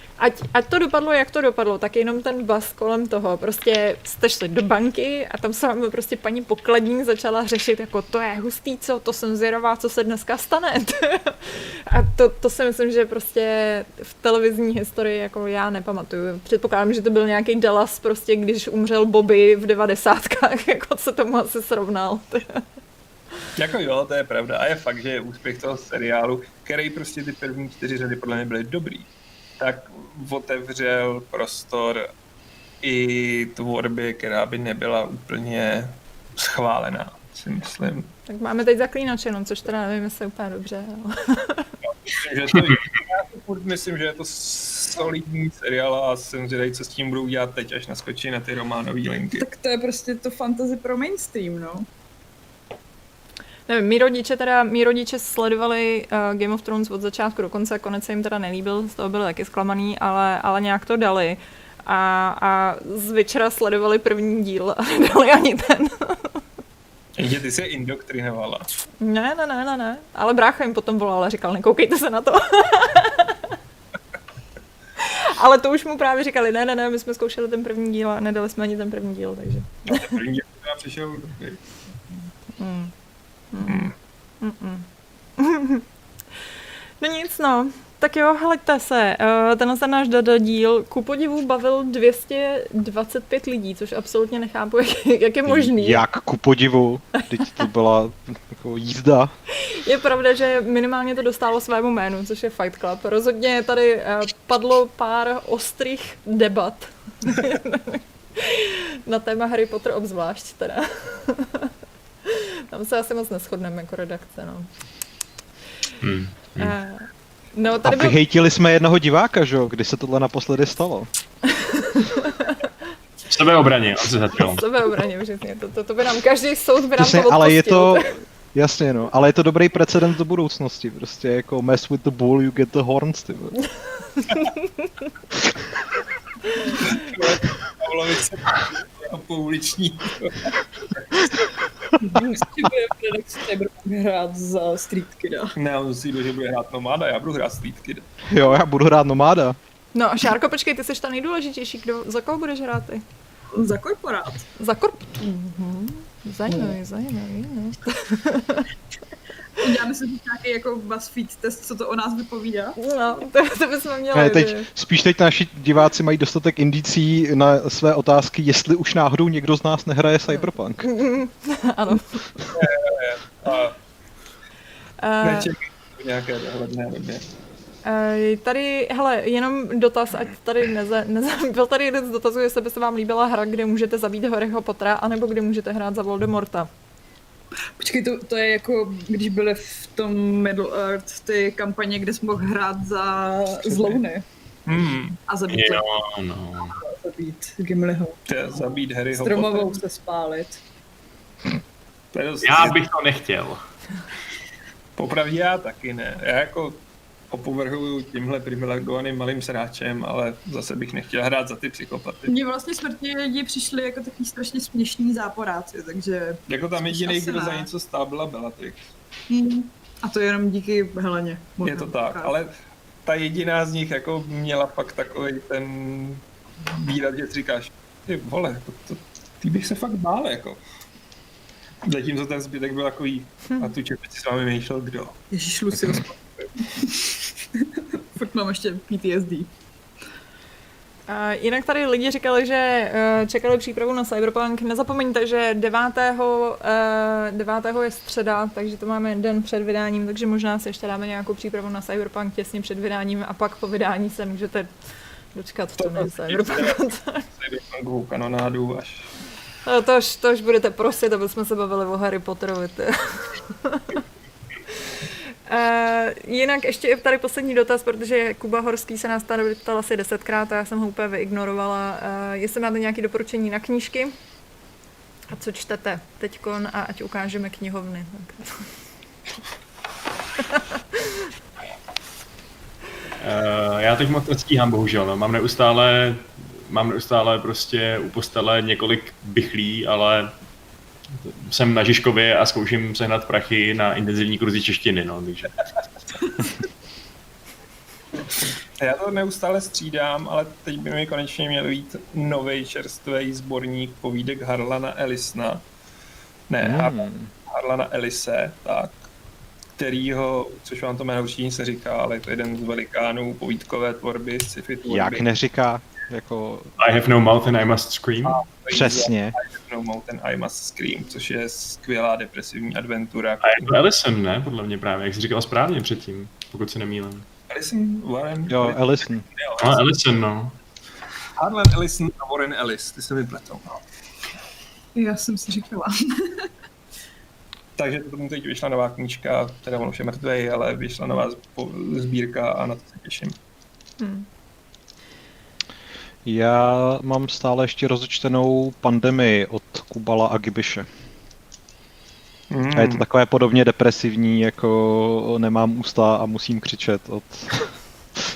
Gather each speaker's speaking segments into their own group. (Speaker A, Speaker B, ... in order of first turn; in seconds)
Speaker A: 0.2-22.6, 38.3-41.7, 53.7-66.4, 69.0-73.5, 75.0-80.0, 82.6-82.9, 83.5-84.9, 85.4-85.8, 87.0-96.0, 99.5-111.7, 112.3-114.7, 116.6-118.2, 121.5-122.7, 124.4-128.2, 134.3-134.6, 149.9-153.0, 154.6-158.7, 162.8-164.7, 170.8-172.3, 175.0-175.5, 177.8-186.7, 241.1-254.7, 255.3-257.2, 259.6-263.9, 265.5-274.1, 275.3-278.7, 344.0-344.3
Speaker B: 23.6-32.1, 32.8-38.1, 42.0-49.5, 67.2-68.7, 79.9-81.6, 83.7-83.9, 136.6-141.3, 145.6-148.1, 172.5-173.8, 175.2-177.2, 193.7-194.0, 194.7-195.2, 198.3-199.8, 202.1-202.8, 205.0-212.3, 216.5-218.9, 221.6-222.5, 223.1-230.6, 231.8-235.2, 255.8-259.1, 298.8-305.7, 306.5-309.0, 309.8-315.2, 318.2-323.8, 327.5-329.9, 331.4-333.8, 337.8-343.4, 352.5-353.0
Speaker C: 49.4-51.9, 142.0-145.6, 153.5-154.5, 159.6-162.8, 187.8-194.3, 195.3-195.8, 196.6-198.2, 199.1-200.6, 212.3-217.7, 219.3-222.3, 235.3-239.5, 334.9-336.5
Speaker D: 95.5-99.3, 117.8-121.1, 127.0-133.6, 148.3-149.6, 164.1-170.9, 306.6-307.3, 314.9-316.7, 318.7-319.4, 328.5-329.2, 346.3-350.9, 352.7-357.7
Speaker E: 116.0-116.8, 123.3-124.7, 195.5-196.8, 202.4-203.7, 283.2-290.3, 291.1-295.6, 316.8-318.4, 323.4-327.3, 329.6-330.6